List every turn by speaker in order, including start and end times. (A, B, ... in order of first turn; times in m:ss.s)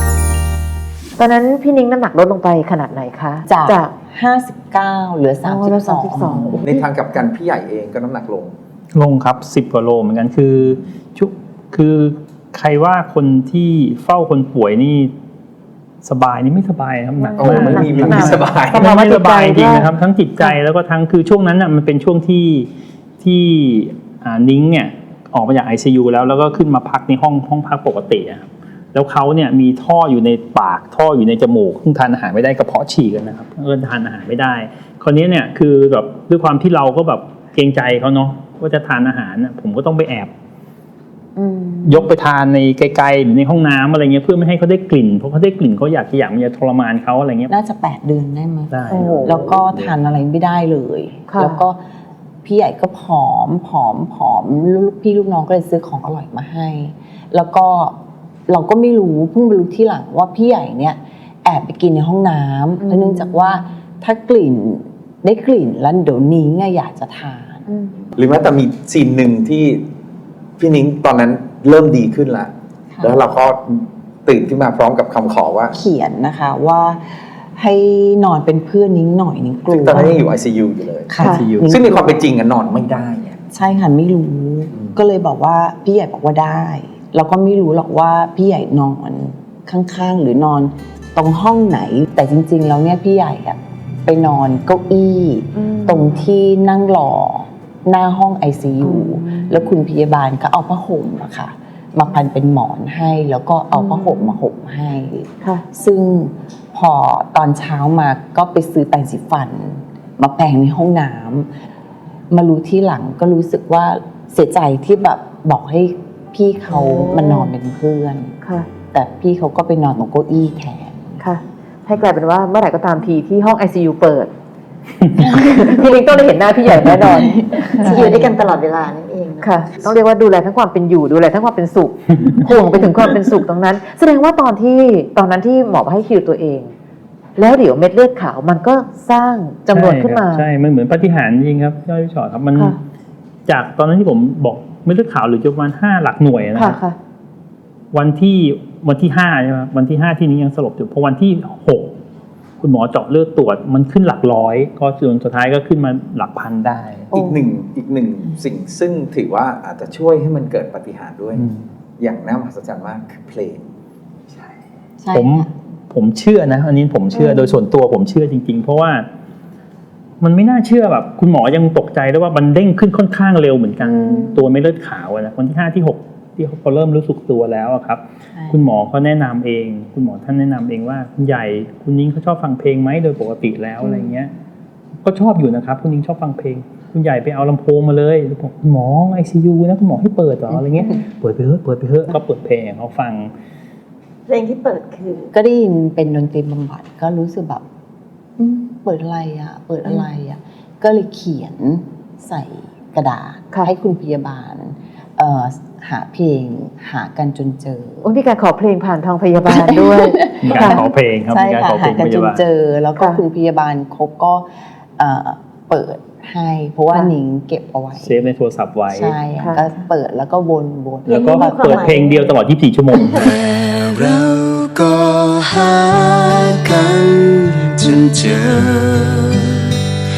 0:01.2-0:03.9 A
0:03.5-0:06.6 B
0:05.4-0:06.8 A
0:06.6-0:08.5 C
0:08.9-0:15.1 D
0:16.0-0:22.7 D
0:17.2-0:20.6 A
0:17.4-0:18.9 C
0:23.2-0:40.3 D
0:41.4-0:42.1 A
0:41.8-0:47.5 D
0:47.5-0:51.8 B
0:48.7-0:50.0 D
0:48.9-0:49.4 A
0:51.3-0:51.6 A
0:52.4-0:58.0 B
0:58.5-1:07.7 B
1:02.8-1:03.6 A
1:07.7-1:08.0 A
1:08.2-1:09.8 C
1:10.6-1:12.5 C
1:13.0-1:13.2 B
1:13.0-1:15.7 C
1:15.7-1:20.3 B
1:19.7-1:23.4 C
1:21.1-1:22.3 B
1:21.2-1:21.7 D
1:21.2-1:21.5 A
1:23.5-1:51.5 B
1:35.6-1:36.2 A
1:38.8-1:39.6 A
1:43.7-1:44.4 A
1:52.3-1:58.4 B
1:56.7-1:57.5 A
1:58.4-1:58.7 A
1:58.9-2:01.2 B
2:01.2-2:04.3 A
2:05.2-2:08.3 A
2:07.4-2:08.3 B
2:07.8-2:09.5 E
2:09.4-2:16.7 A
2:17.4-2:20.5 A
2:19.7-2:22.8 D
2:23.5-2:26.8 D
2:26.6-2:27.0 A
2:27.9-2:31.9 D
2:32.6-2:37.1 D
2:37.1-2:41.5 C
2:37.2-2:37.4 A
2:42.0-2:43.7 C
2:45.0-2:45.5 B
2:45.1-2:49.1 D
2:47.2-2:47.6 A
2:50.2-3:04.3 D
2:53.8-2:54.4 A
2:58.4-2:58.6 B
3:03.8-3:04.1 A
3:05.0-3:13.3 D
3:14.3-3:15.3 E
3:15.3-3:17.6 B
3:18.4-3:28.1 B
3:28.0-3:30.8 A
3:29.5-3:34.5 B
3:30.4-3:32.4 D
3:35.0-3:38.2 B
3:38.0-3:39.2 D
3:38.9-3:42.0 B
3:39.4-3:39.6 A
3:41.1-3:43.4 D
3:41.2-3:42.2 E
3:43.3-3:49.8 F